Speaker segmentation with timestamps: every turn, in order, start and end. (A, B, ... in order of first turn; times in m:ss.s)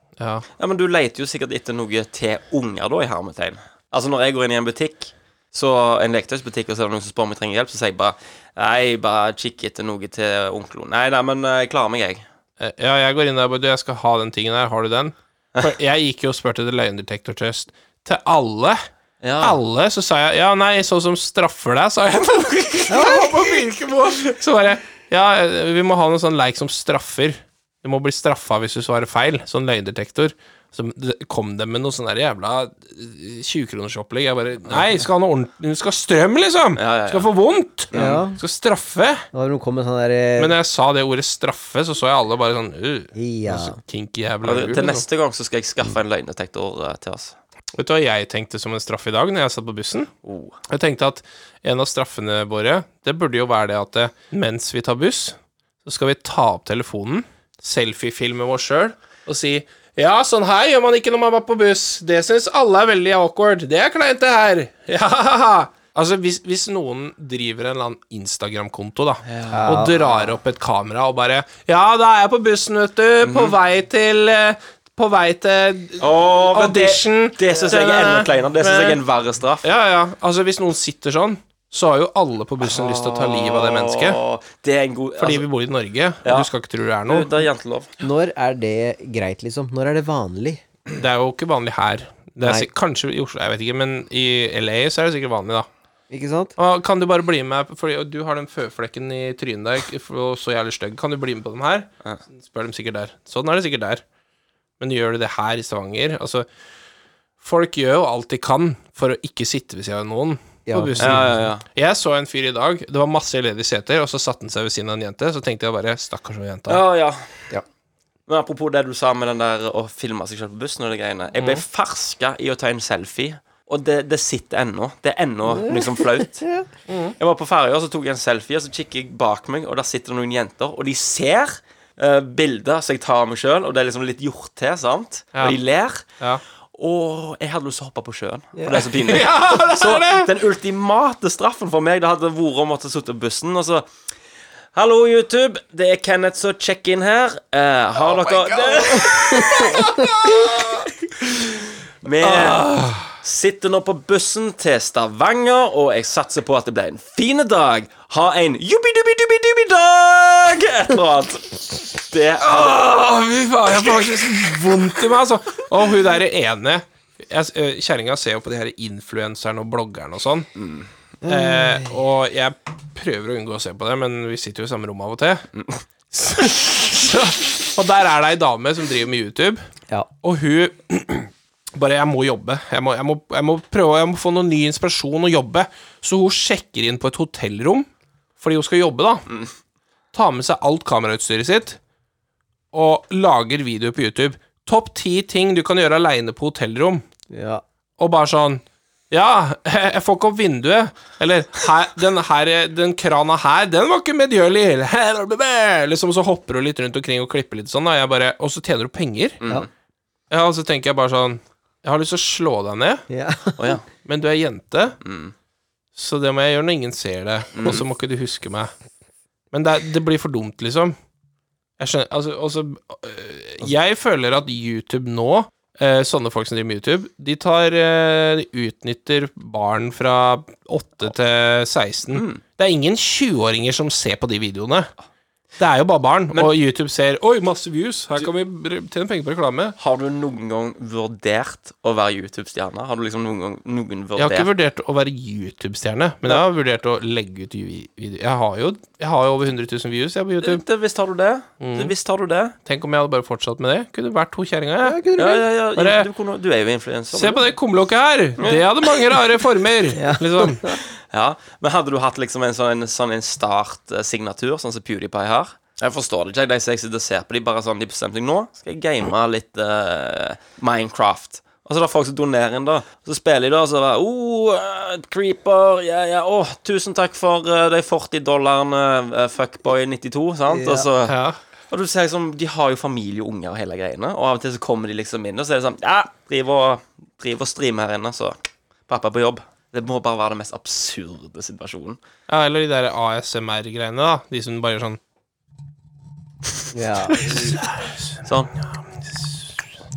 0:00.2-0:00.4 A
0:00.6-0:12.2 B
0:12.6-0:18.8 A
0:19.2-0:19.6 B
0:19.4-0:39.2 A
0:22.9-0:23.4 C
0:36.8-0:37.3 B
0:37.9-0:38.2 B
0:37.9-0:38.4 C
0:39.3-0:40.6 C
0:40.4-0:45.0 A
0:43.1-0:43.8 C
0:44.4-0:47.4 B
0:47.7-0:50.1 A
0:50.2-0:50.6 B
0:50.7-1:19.0 A
1:09.2-1:10.1 B
1:09.5-1:10.0 C
1:13.2-1:13.5 B
1:16.0-1:19.6 B
1:19.6-1:24.2 A
1:22.6-1:25.4 B
1:25.2-1:27.4 A
1:26.2-1:26.5 B
1:27.1-1:27.9 B
1:28.0-1:30.6 C
1:30.9-1:35.7 A
1:36.1-1:36.5 C
1:36.6-1:44.0 A
1:44.8-1:46.4 A
1:47.4-1:56.8 A
1:50.7-1:51.2 C
1:51.0-1:51.6 B
1:56.7-1:57.5 B
1:58.3-2:06.4 B
2:05.5-2:06.7 C
2:06.9-2:07.2 A
2:07.2-2:16.1 B
2:16.7-2:23.9 B
2:18.6-2:18.8 C
2:18.8-2:20.3 A
2:24.7-2:30.0 B
2:28.0-2:30.9 A
2:29.3-2:30.0 C
2:32.0-2:32.7 B
2:32.2-2:33.1 A
2:33.2-2:42.8 B
2:42.4-2:50.5 A
2:50.6-2:50.9 B
2:51.2-2:51.9 C
2:51.2-2:55.5 A
2:55.6-2:55.8 B
2:56.1-2:59.6 A
3:00.2-3:07.9 A
3:08.4-3:09.3 A
3:10.1-3:11.8 A
3:12.7-3:17.0 A
3:17.3-3:17.6 C
3:18.0-3:29.4 A
3:29.4-3:29.7 B
3:30.3-3:33.0 A
3:33.1-3:33.7 C
3:33.6-3:33.8 B
3:34.0-3:35.0 A
3:35.0-3:35.3 B
3:36.0-3:38.7 A
3:37.5-3:37.8 B
3:39.5-3:40.9 A
3:41.8-3:54.9 A
3:52.1-3:52.4 B
3:55.6-3:59.8 A
3:59.8-4:04.5 B
4:04.2-4:10.6 A
4:10.4-4:12.6 B
4:11.6-4:11.9 A
4:12.6-4:15.0 A
4:14.8-4:15.4 C
4:15.2-4:17.4 B
4:15.8-4:16.1 A
4:17.1-4:20.7 A
4:19.9-4:20.8 C
4:21.1-4:41.2 B
4:40.5-4:40.9 C
4:41.1-4:41.4 A
4:41.7-4:48.4 B
4:48.9-4:52.0 B
4:52.3-4:55.0 A
4:56.7-4:57.5 C
4:57.2-4:57.9 A
4:58.2-4:58.5 B
4:58.7-4:59.7 A